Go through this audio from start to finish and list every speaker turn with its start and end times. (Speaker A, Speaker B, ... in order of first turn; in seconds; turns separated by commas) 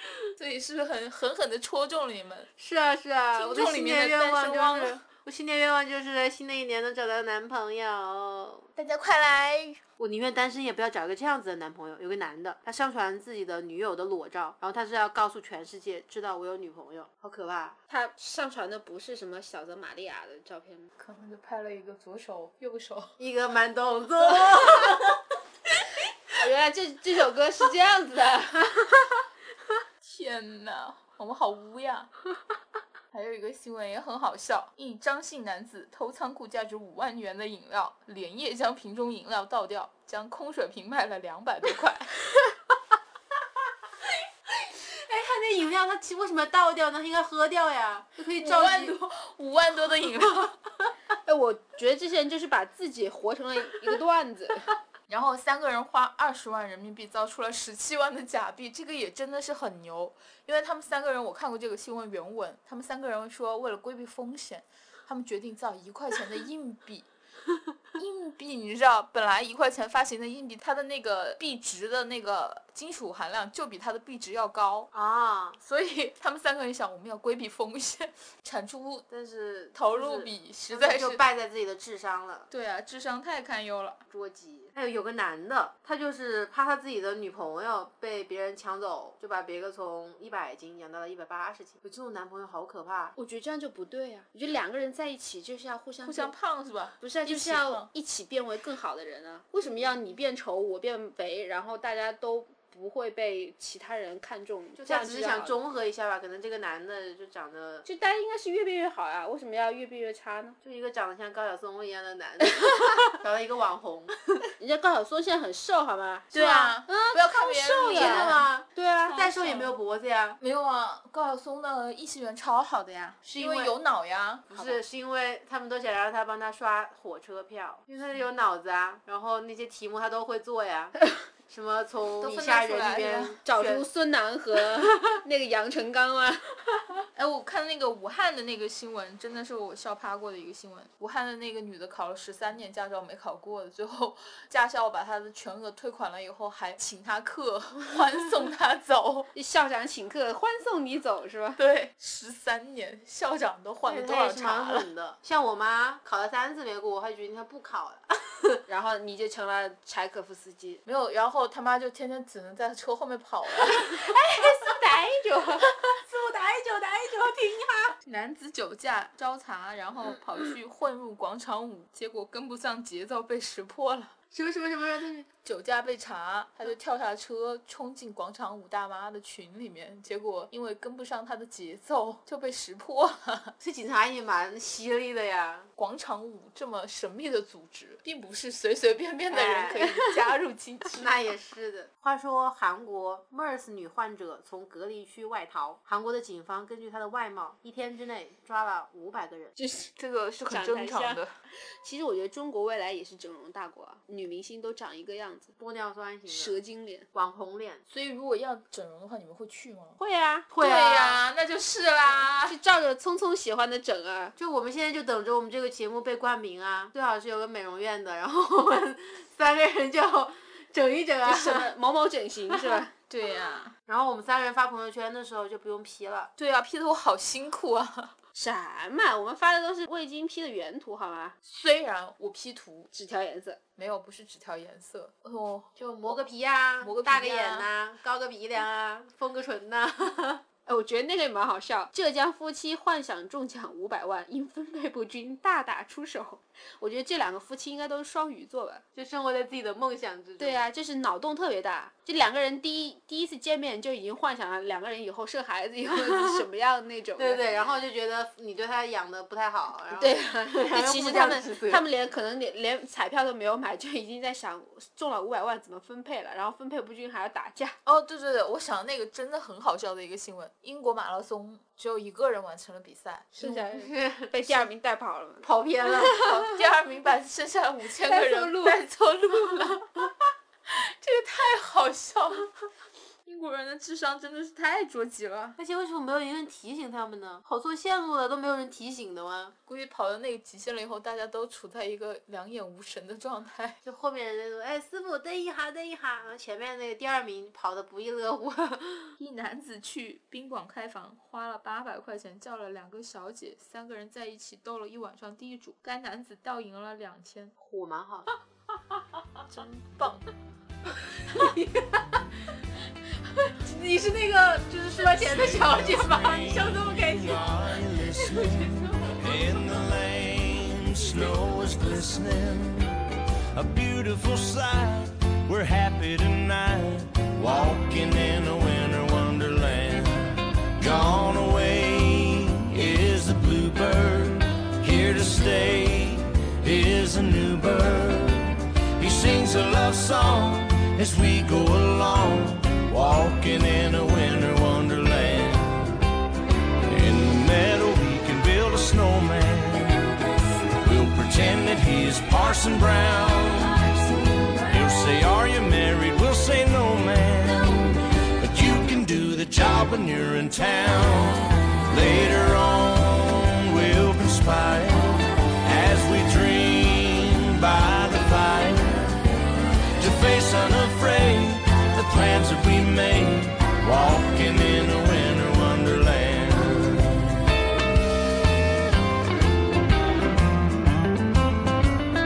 Speaker A: 0.3-2.5, Speaker B: 2.6-8.7, Speaker A: 3.4-5.0, Speaker A: 8.8-9.8, Speaker B: 10.0-17.8, Speaker C: 17.9-20.9, Speaker A: 21.0-23.1, Speaker B: 23.2-25.2, Speaker C: 26.4-29.1, Speaker A: 30.0-32.1, Speaker A: 33.1-42.1, Speaker B: 44.7-49.0, Speaker A: 48.4-50.6, Speaker C: 51.3-54.6, Speaker A: 55.1-67.1, Speaker A: 68.0-74.9, Speaker B: 74.9-75.6, Speaker A: 75.6-79.0, Speaker B: 79.1-82.5, Speaker A: 79.7-81.2, Speaker A: 82.5-84.0, Speaker B: 84.1-93.2, Speaker C: 93.2-96.3, Speaker A: 96.0-97.9, Speaker C: 97.0-105.6, Speaker B: 104.8-107.8, Speaker C: 107.8-110.6, Speaker B: 110.6-114.2, Speaker C: 112.7-113.0, Speaker C: 114.6-116.3, Speaker A: 116.3-118.5, Speaker B: 116.3-116.8, Speaker C: 116.9-119.2, Speaker B: 117.9-120.4, Speaker A: 119.1-119.8, Speaker A: 120.4-124.5, Speaker B: 123.3-123.8, Speaker B: 124.5-133.9, Speaker C: 124.5-124.8, Speaker A: 132.2-133.4, Speaker C: 133.5-136.4, Speaker A: 137.1-149.3, Speaker C: 149.3-151.6, Speaker A: 151.6-154.9, Speaker B: 153.9-158.6, Speaker C: 158.7-160.8, Speaker A: 160.8-163.9, Speaker C: 164.0-165.7, Speaker B: 165.9-167.9, Speaker A: 168.0-174.1, Speaker B: 174.3-175.3, Speaker A: 175.4-183.6, Speaker B: 183.6-185.7, Speaker A: 185.8-191.0, Speaker C: 189.3-190.3, Speaker B: 189.3-189.8, Speaker B: 190.9-199.5, Speaker C: 199.6-199.9, Speaker A: 200.0-201.3, Speaker C: 200.4-201.2, Speaker C: 201.8-205.5, Speaker B: 205.6-206.6, Speaker C: 206.3-207.1, Speaker B: 207.1-207.8, Speaker A: 207.9-210.0, Speaker C: 210.0-210.5, Speaker A: 210.6-212.6, Speaker B: 210.6-211.2, Speaker C: 212.5-214.4, Speaker B: 214.4-221.7, Speaker C: 221.2-222.9, Speaker A: 222.5-223.7, Speaker B: 223.9-226.3, Speaker A: 226.4-228.1, Speaker C: 228.3-231.4, Speaker A: 231.4-232.9, Speaker C: 232.9-233.6, Speaker A: 233.8-236.1, Speaker B: 235.8-240.4, Speaker A: 236.8-237.7, Speaker C: 240.7-248.8, Speaker B: 248.9-250.6, Speaker C: 250.4-257.4, Speaker B: 255.9-256.5, Speaker B: 257.2-261.8, Speaker C: 259.9-267.8, Speaker A: 267.8-273.7, Speaker C: 273.3-275.5, Speaker B: 273.7-274.7, Speaker B: 275.4-276.2, Speaker A: 276.1-279.9, Speaker C: 276.1-276.4, Speaker C: 278.0-278.8, Speaker A: 281.0-282.5, Speaker A: 283.2-285.6, Speaker B: 285.6-289.6, Speaker A: 289.7-293.8, Speaker B: 293.8-299.1, Speaker A: 299.2-307.5, Speaker B: 307.6-308.3, Speaker A: 309.5-310.3, Speaker B: 311.3-312.0, Speaker B: 313.5-319.1, Speaker D: 315.1-322.9, Speaker D: 323.5-345.9, Speaker D: 346.9-350.2, Speaker D: 350.8-353.9, Speaker D: 354.6-369.2, Speaker D: 370.0-377.5